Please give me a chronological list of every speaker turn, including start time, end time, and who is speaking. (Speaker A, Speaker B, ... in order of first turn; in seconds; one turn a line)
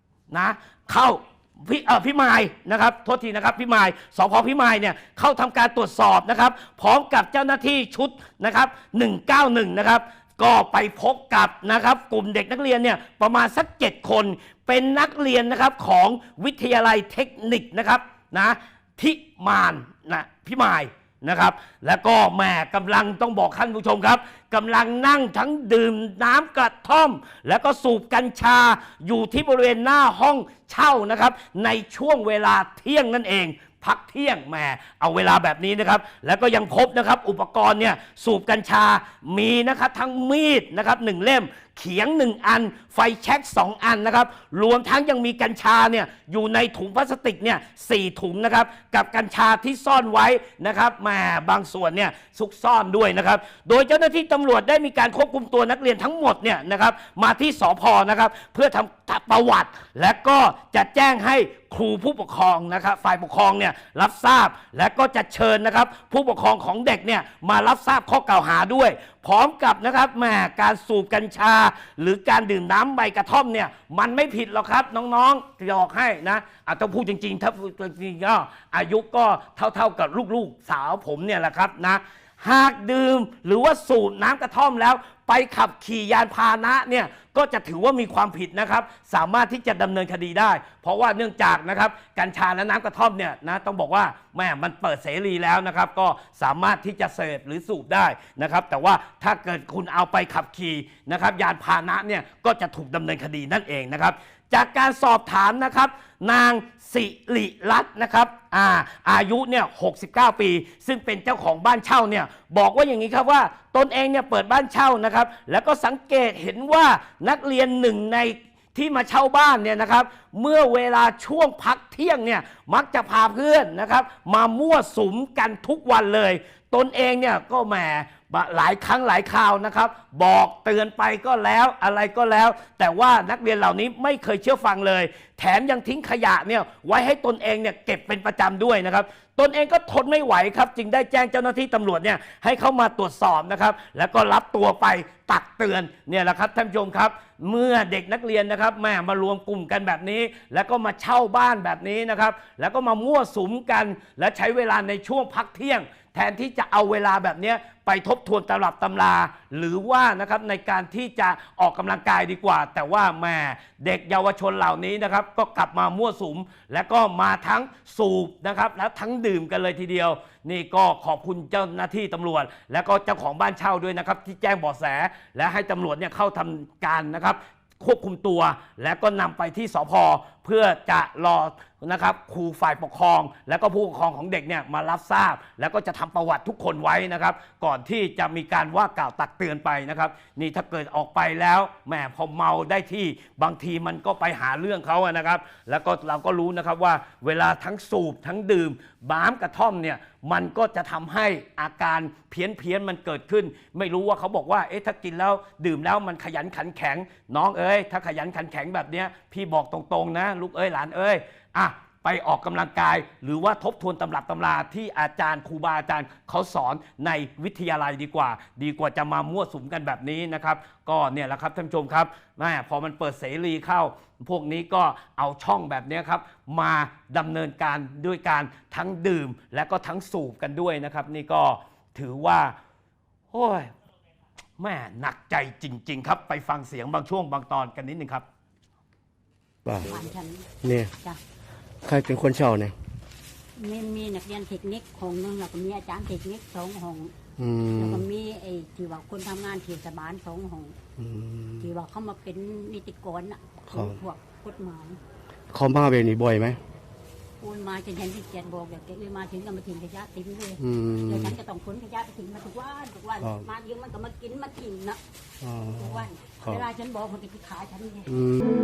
Speaker A: 0.3-232.6
Speaker A: 233.3-233.7
Speaker A: 234.6-238.2
Speaker B: 239.6-240.0
Speaker C: 239.8-240.5
Speaker B: 240.6-240.9
Speaker B: 241.8-242.8
Speaker C: 243.6-247.1
Speaker B: 247.4-248.1
Speaker C: 247.7-250.8
Speaker B: 251.0-251.7
Speaker C: 251.6-255.0
Speaker B: 253.7-254.0
Speaker B: 255.5-256.6
Speaker C: 257.4-265.0
Speaker B: 260.6-261.4
Speaker B: 263.2-263.5
Speaker B: 265.4-266.6
Speaker C: 265.8-268.1
Speaker B: 268.1-268.4